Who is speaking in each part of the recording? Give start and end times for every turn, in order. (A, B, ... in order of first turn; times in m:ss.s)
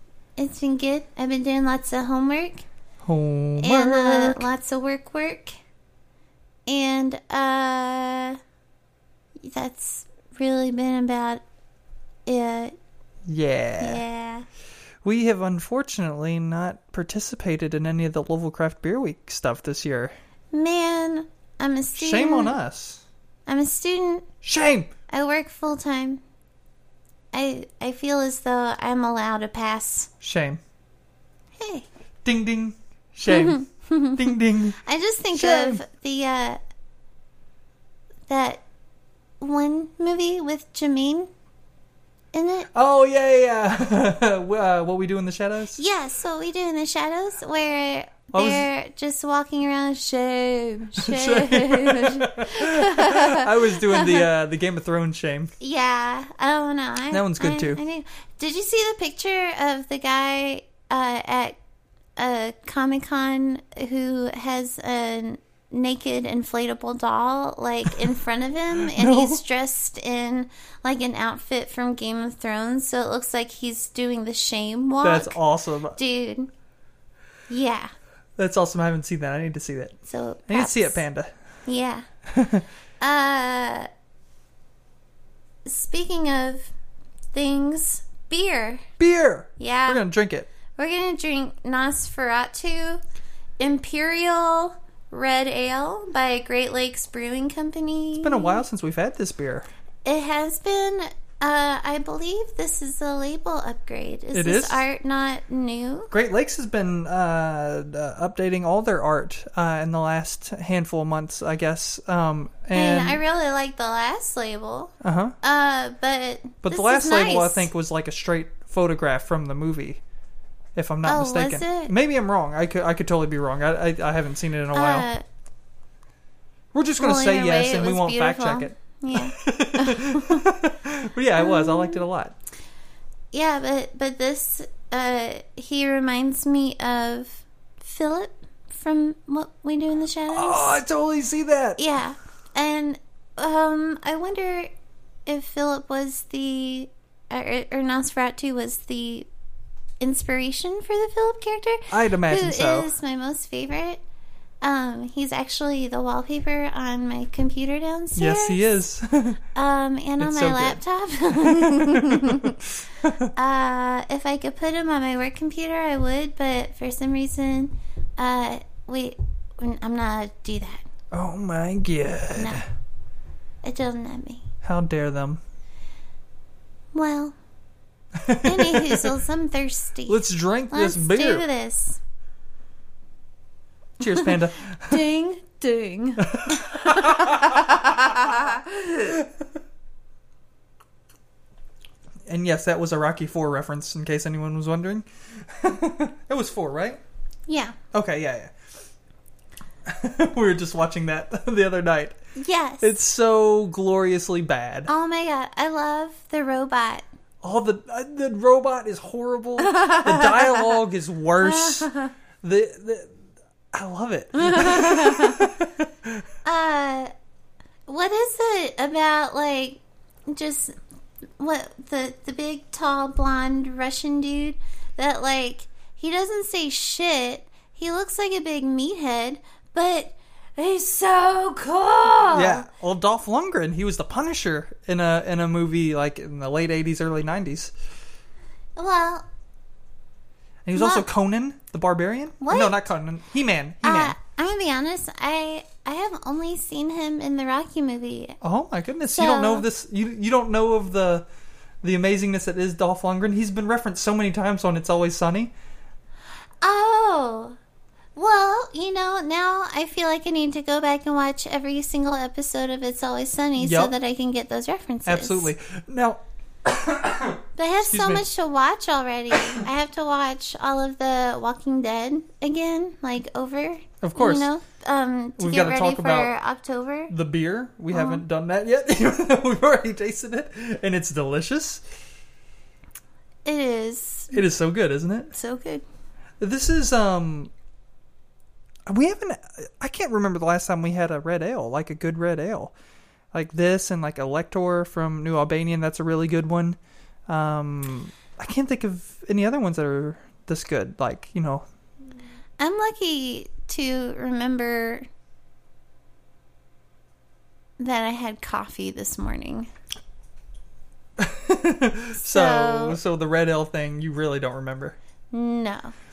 0:00.4-0:02.6 A
0:03.0-0:04.5 B
0:03.6-0:05.5 A
0:06.7-0:08.4 A
0:09.4-0:11.4 A
0:12.2-0:12.8 A
0:13.3-0:14.0 B
0:13.8-0:14.4 A
0:15.0-0:20.1 B
0:20.5-0:22.6 A
0:21.9-0:23.0 B
0:23.5-0:24.3 A
0:24.4-0:24.9 B
0:25.1-0:26.2 A
0:27.3-0:30.1 A
0:30.2-0:30.6 B
0:31.6-0:31.8 A
0:32.2-0:35.8 B
0:33.3-0:34.2 A
0:34.8-0:36.6 A
0:38.3-0:38.6 A
0:39.4-0:41.3 A
0:42.3-0:42.7 A
0:42.7-0:45.8 B
0:45.8-0:54.2 A
0:48.3-0:48.7 B
0:51.0-0:55.5 B
0:55.6-1:01.6 A
0:57.1-0:57.8 B
1:02.2-1:15.4 A
1:08.9-1:09.4 B
1:15.0-1:16.0 B
1:15.9-1:16.5 A
1:17.5-1:17.9 A
1:18.4-1:20.0 B
1:20.1-1:21.0 A
1:20.5-1:21.3 B
1:21.6-1:22.0 A
1:22.3-1:22.7 B
1:23.0-1:23.9 A
1:25.6-1:26.7 A
1:27.3-1:28.8 A
1:29.0-1:30.5 B
1:29.6-1:30.0 A
1:30.7-1:33.0 A
1:33.6-1:38.6 A
1:38.2-1:39.7 B
1:40.0-1:46.1 A
1:44.3-1:44.9 B
1:46.1-1:53.2 B
1:52.7-1:57.7 A
1:55.0-1:55.3 B
1:56.6-2:00.0 B
2:00.8-2:05.1 B
2:01.0-2:01.9 A
2:04.7-2:05.2 A
2:06.7-2:12.3 B
2:07.0-2:10.4 A
2:11.4-2:12.0 A
2:13.3-2:20.8 A
2:20.3-2:21.8 B
2:21.8-2:24.7 A
2:25.2-2:29.3 A
2:30.0-2:34.0 A
2:31.9-2:32.9 B
2:34.6-2:38.8 A
2:38.2-2:39.4 B
2:39.5-2:42.6 A
2:40.2-2:40.8 B
2:41.4-2:43.3 B
2:43.4-2:50.8 A
2:51.1-2:52.6 B
2:52.4-2:52.6 A
2:53.6-2:54.4 A
2:54.6-2:55.4 B
2:56.9-2:57.3 A
2:58.2-2:59.1 B
2:58.4-3:02.0 A
3:00.1-3:01.4 B
3:04.0-3:05.0 B
3:04.9-3:09.1 A
3:06.3-3:08.0 B
3:12.3-3:17.0 B
3:17.5-3:17.8 A
3:17.9-3:18.5 B
3:19.8-3:22.2 B
3:22.4-3:23.0 A
3:22.8-3:24.9 B
3:24.9-3:27.0 A
3:27.4-3:33.1 B
3:29.7-3:30.5 A
3:31.4-3:32.1 A
3:33.7-3:36.2 B
3:34.4-3:35.5 A
3:36.4-3:37.1 A
3:37.9-3:40.7 A
3:41.4-3:52.6 A
3:52.3-3:57.7 B
3:58.8-3:59.2 A
4:00.6-4:04.2 B
4:00.8-4:01.0 A
4:02.4-4:02.8 A
4:03.8-4:08.4 A
4:08.4-4:11.2 B
4:09.1-4:09.6 A
4:11.8-4:15.5 B
4:16.6-4:17.6 A
4:18.2-4:25.5 A
4:23.6-4:23.9 B
4:25.0-4:28.2 B
4:27.6-4:37.1 A
4:34.0-4:34.5 B
4:35.4-4:36.3 B
4:37.1-4:41.8 B
4:37.9-4:38.2 A
4:43.4-4:44.4 A
4:44.3-4:45.3 B
4:45.3-4:45.8 A
4:46.4-4:47.5 B
4:48.9-4:52.7 B
4:53.3-5:01.6 B
5:02.6-5:05.0 A
5:07.8-5:09.7 A
5:11.2-5:15.0 B
5:12.2-5:13.0 A
5:15.3-5:15.9 A